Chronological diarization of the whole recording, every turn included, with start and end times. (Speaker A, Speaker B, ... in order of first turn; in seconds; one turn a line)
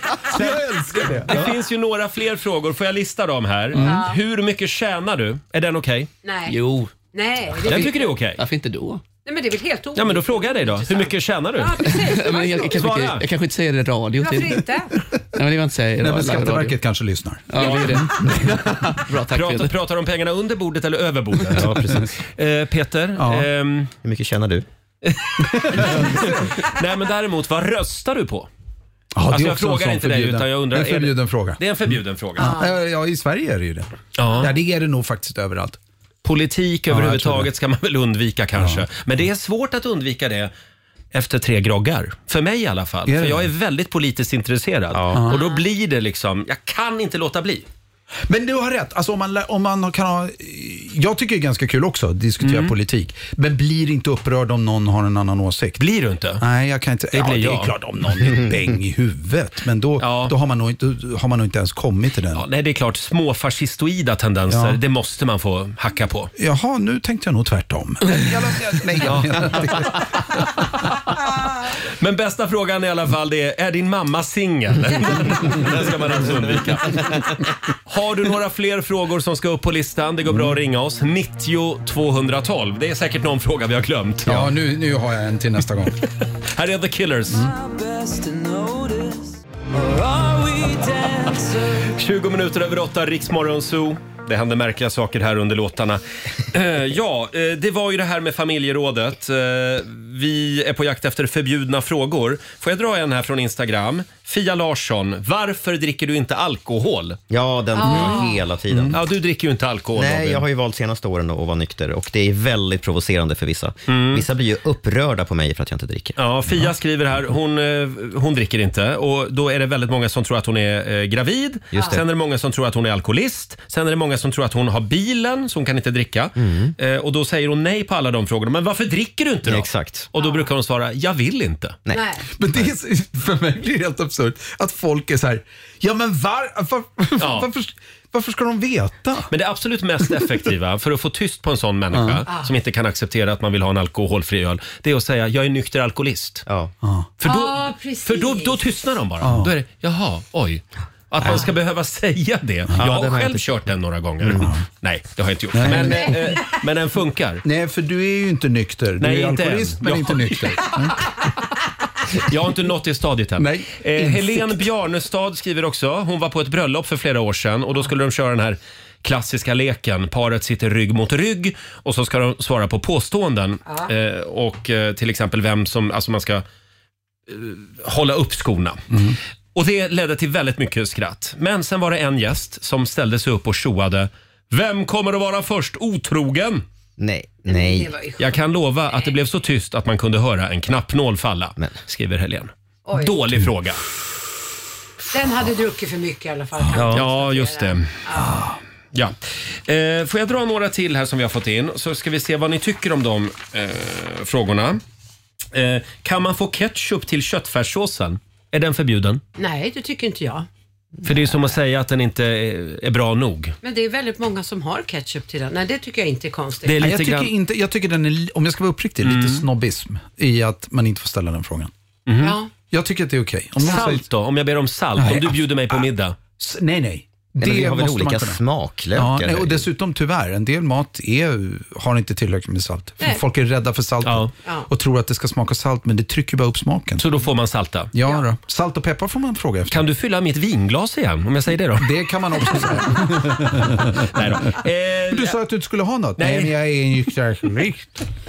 Speaker A: 0.2-1.6
Speaker B: 0.3-6.1
Speaker A: 3.7-4.0
Speaker C: 3.8-4.2
Speaker C: 6.2-6.6
Speaker D: 6.5-6.9
Speaker C: 7.1-8.1
Speaker B: 7.7-8.4
Speaker D: 8.4-9.0
Speaker C: 9.2-13.0
Speaker B: 9.9-11.9
Speaker D: 11.9-14.7
Speaker B: 12.7-13.2
Speaker C: 14.2-14.9
Speaker D: 15.3-16.8
Speaker A: 16.0-18.6
Speaker D: 17.5-19.7
Speaker B: 17.6-18.0
Speaker B: 19.3-23.9
Speaker E: 21.5-22.1
Speaker A: 23.2-23.5
Speaker E: 24.0-24.6
Speaker B: 25.0-28.5
Speaker A: 25.6-26.5
Speaker A: 29.1-35.8
Speaker B: 29.3-32.6
Speaker B: 34.2-34.5
Speaker B: 36.2-40.5
Speaker A: 36.9-37.5
Speaker A: 38.5-38.8
Speaker B: 41.1-47.6
Speaker A: 43.1-43.5
Speaker E: 44.9-45.2
Speaker C: 45.3-45.6
Speaker A: 48.3-55.8
Speaker B: 52.4-52.7
Speaker B: 55.8-56.4
Speaker A: 56.4-62.4
Speaker B: 57.1-57.7
Speaker B: 60.0-60.3
Speaker B: 62.3-66.3
Speaker A: 64.5-64.8
Speaker A: 66.4-70.4
Speaker B: 69.1-70.0
Speaker B: 72.0-84.5
Speaker A: 84.2-86.0
Speaker B: 86.5-87.5
Speaker B: 91.1-107.2
Speaker E: 107.3-109.0
Speaker C: 107.7-108.4
Speaker B: 107.9-108.2
Speaker B: 108.9-110.4
Speaker E: 109.9-116.2
Speaker B: 113.9-114.2
Speaker B: 116.2-131.8
Speaker E: 121.7-122.0
Speaker C: 121.7-122.0
Speaker E: 126.4-126.7
Speaker E: 129.4-130.1
Speaker C: 130.2-130.5
Speaker C: 131.9-132.2
Speaker A: 132.3-139.3
Speaker B: 137.2-137.5
Speaker B: 139.3-146.4
Speaker A: 141.9-142.2
Speaker E: 146.5-146.7
Speaker A: 146.8-147.1
Speaker B: 147.2-157.4
Speaker C: 147.2-148.6
Speaker A: 149.2-149.5
Speaker E: 152.8-153.5
Speaker E: 154.2-154.5
Speaker A: 155.5-156.2
Speaker A: 157.4-161.0
Speaker B: 159.0-161.1
Speaker B: 162.1-176.4
Speaker A: 163.4-164.6
Speaker B: 177.3-178.8
Speaker B: 179.5-186.6
Speaker E: 187.0-187.9
Speaker C: 187.4-188.3
Speaker B: 188.2-193.8
Speaker C: 192.8-193.2
Speaker C: 195.1-198.3
Speaker B: 196.8-197.9
Speaker A: 198.1-198.6
Speaker B: 199.7-204.8
Speaker B: 205.5-209.2
Speaker C: 209.4-210.5
Speaker B: 211.0-213.6
Speaker C: 213.6-216.8
Speaker B: 216.6-217.3
Speaker A: 216.8-221.7
Speaker B: 219.0-219.4
Speaker B: 222.1-222.4
Speaker C: 222.2-222.5
Speaker A: 222.7-224.1
Speaker B: 223.6-226.2
Speaker A: 224.9-225.9
Speaker A: 226.4-228.4
Speaker E: 227.4-229.7
Speaker A: 228.9-237.0
Speaker B: 234.0-234.3
Speaker B: 237.0-237.9
Speaker A: 237.9-239.8
Speaker B: 239.7-241.9
Speaker A: 241.8-244.5
Speaker B: 243.9-245.4
Speaker A: 245.1-248.0
Speaker B: 246.2-246.6